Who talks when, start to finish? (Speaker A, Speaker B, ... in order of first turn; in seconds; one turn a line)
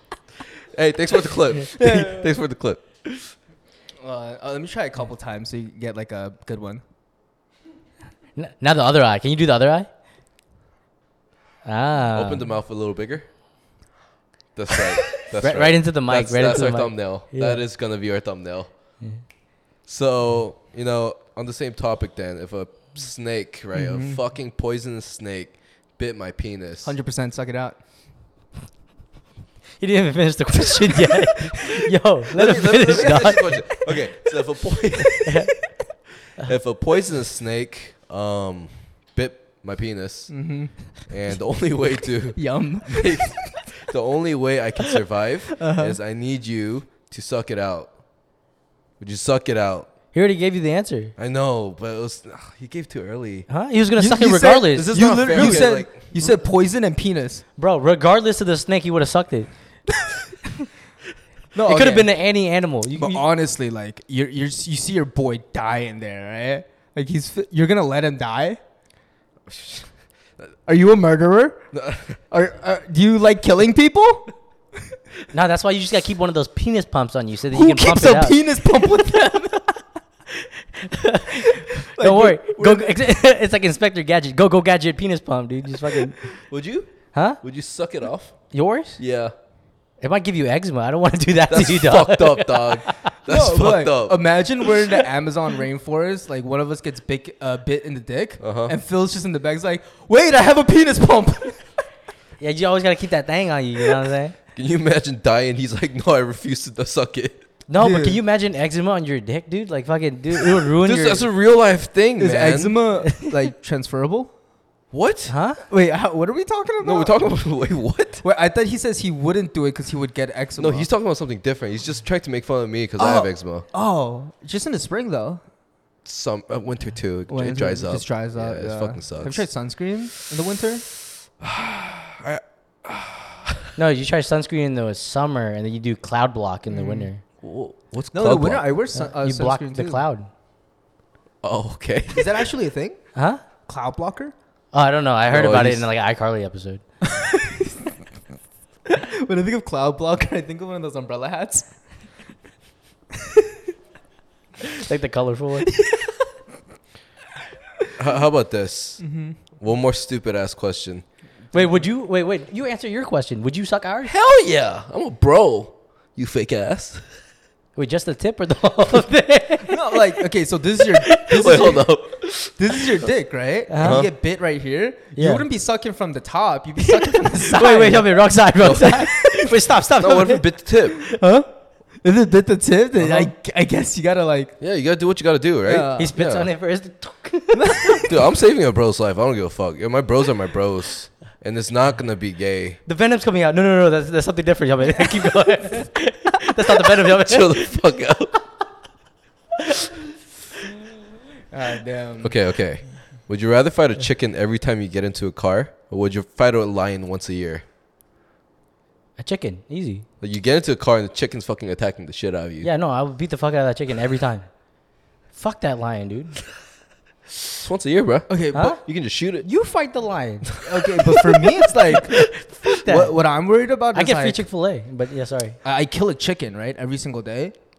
Speaker A: 0.7-3.3
Speaker B: 1.7-2.3
Speaker B: 4.0-6.8
Speaker C: 8.3-9.9
Speaker C: 11.6-12.5
Speaker A: 12.1-13.2
Speaker A: 14.5-18.7
Speaker C: 15.2-17.6
Speaker A: 19.9-26.9
Speaker B: 23.7-24.2
Speaker B: 26.8-27.8
Speaker C: 29.8-33.9
Speaker A: 32.3-35.3
Speaker B: 32.9-33.2
Speaker C: 35.2-35.6
Speaker A: 36.4-40.4
Speaker B: 40.3-41.0
Speaker A: 41.0-47.9
Speaker B: 42.3-43.6
Speaker B: 45.6-46.0
Speaker A: 49.0-49.9
Speaker C: 50.1-51.1
Speaker A: 51.2-53.5
Speaker C: 53.5-55.7
Speaker B: 54.0-57.4
Speaker A: 54.7-56.0
Speaker C: 57.6-59.5
Speaker B: 61.5-62.1
Speaker C: 61.6-63.2
Speaker B: 62.9-68.6
Speaker A: 69.5-69.9
Speaker B: 70.7-71.7
Speaker A: 71.7-72.2
Speaker B: 72.3-74.3
Speaker C: 75.3-78.4
Speaker B: 77.5-79.8
Speaker C: 80.8-86.4
Speaker B: 81.6-83.0
Speaker A: 86.5-89.3
Speaker C: 87.1-87.4
Speaker C: 88.5-89.0
Speaker C: 90.0-93.1
Speaker A: 91.5-94.2
Speaker B: 93.3-101.7
Speaker A: 98.4-98.7
Speaker C: 102.4-104.3
Speaker A: 104.5-107.4
Speaker C: 107.7-111.2
Speaker B: 107.8-108.2
Speaker A: 110.8-112.7
Speaker B: 112.2-114.3
Speaker A: 114.9-115.3
Speaker C: 115.3-115.6
Speaker B: 115.7-117.2
Speaker A: 116.8-118.2
Speaker B: 118.2-120.9
Speaker A: 120.6-123.7
Speaker B: 123.0-125.4
Speaker A: 126.0-129.5
Speaker B: 127.3-130.8
Speaker A: 131.4-133.8
Speaker C: 133.8-137.2
Speaker B: 136.7-137.1
Speaker A: 137.4-138.6
Speaker B: 138.1-140.0
Speaker C: 138.9-140.3
Speaker A: 141.4-142.3
Speaker B: 142.1-143.0
Speaker C: 143.1-143.4
Speaker B: 143.7-144.3
Speaker C: 144.7-146.8
Speaker A: 145.3-145.9
Speaker B: 147.0-147.8
Speaker B: 148.9-151.7
Speaker C: 154.6-155.7
Speaker B: 155.7-156.2
Speaker A: 158.0-159.0
Speaker B: 159.0-159.4
Speaker A: 159.5-161.0
Speaker C: 161.5-164.1
Speaker B: 161.5-161.8
Speaker A: 164.0-167.1
Speaker C: 167.8-170.0
Speaker B: 169.7-171.9
Speaker C: 171.0-171.8
Speaker A: 171.3-172.5
Speaker B: 172.6-178.1
Speaker C: 173.7-174.1
Speaker A: 173.8-174.1
Speaker C: 175.2-175.4
Speaker C: 176.9-180.5
Speaker A: 178.6-181.1
Speaker B: 181.1-181.5
Speaker B: 182.0-184.6
Speaker A: 184.6-186.5
Speaker B: 185.6-186.1
Speaker C: 186.0-188.0
Speaker B: 187.5-188.1
Speaker A: 188.1-192.8
Speaker C: 192.8-197.7
Speaker A: 197.1-198.3
Speaker B: 201.5-202.4
Speaker A: 202.2-207.6
Speaker C: 209.2-210.0
Speaker A: 210.2-212.7
Speaker C: 212.6-214.5
Speaker C: 215.3-216.4
Speaker A: 217.5-219.5
Speaker B: 218.3-218.8
Speaker C: 218.5-218.8
Speaker C: 219.4-220.6
Speaker B: 220.6-224.4
Speaker C: 221.7-223.2
Speaker C: 223.9-225.6
Speaker B: 225.6-227.5